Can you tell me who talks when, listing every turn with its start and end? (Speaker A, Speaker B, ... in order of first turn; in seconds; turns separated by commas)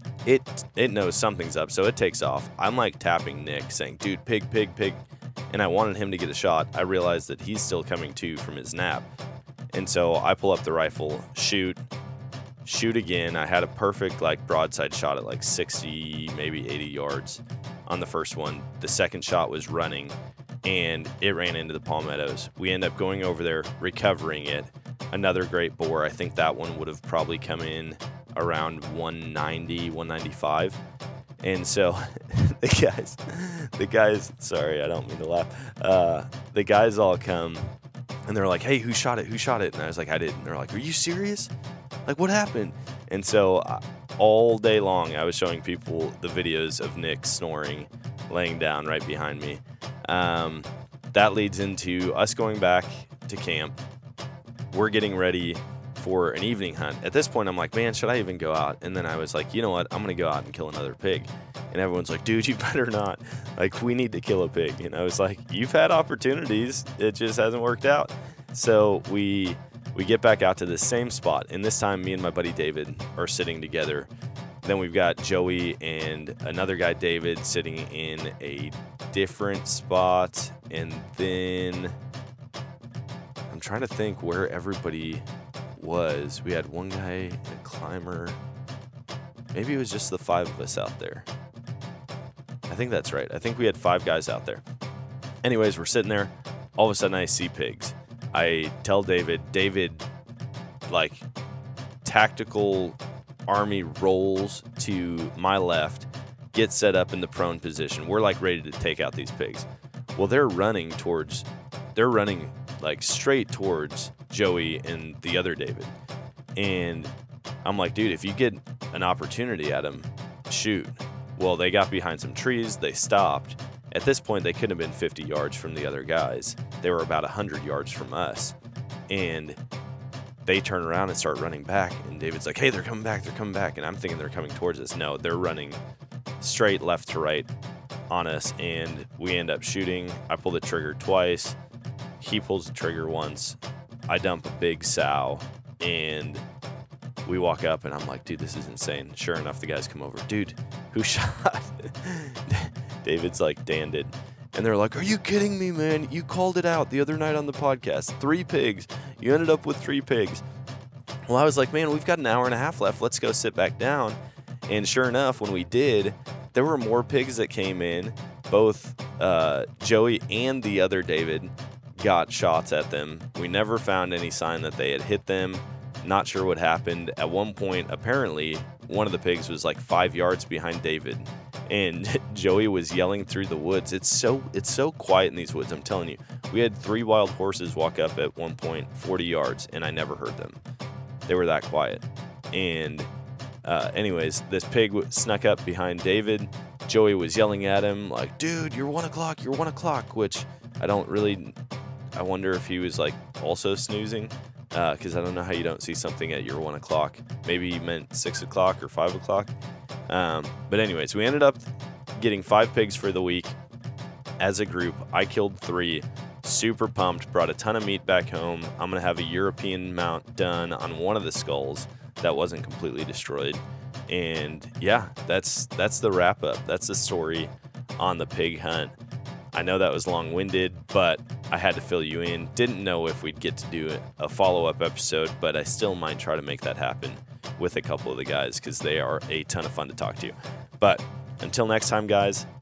Speaker A: 0.2-9.0, Speaker A: 9.7-11.8, Speaker A: 12.6-30.8, Speaker A: 31.4-37.7, Speaker A: 38.3-41.5, Speaker A: 42.1-53.7, Speaker A: 54.7-74.1, Speaker A: 74.6-81.9, Speaker A: 83.5-85.2, Speaker A: 85.8-88.4, Speaker A: 89.5-91.2, Speaker A: 92.7-94.6, Speaker A: 95.4-100.0, Speaker A: 100.9-101.2, Speaker A: 102.0-115.9, Speaker A: 116.5-117.1, Speaker A: 117.6-128.5, Speaker A: 129.1-129.6, Speaker A: 130.4-135.8, Speaker A: 136.4-137.5, Speaker A: 138.1-141.6, Speaker A: 142.2-143.6, Speaker A: 144.1-146.4, Speaker A: 147.2-160.4, Speaker A: 161.3-190.6, Speaker A: 191.3-193.1, Speaker A: 193.6-201.5, Speaker A: 202.1-209.5, Speaker A: 210.1-211.6, Speaker A: 212.1-213.6, Speaker A: 214.4-228.9, Speaker A: 229.5-242.4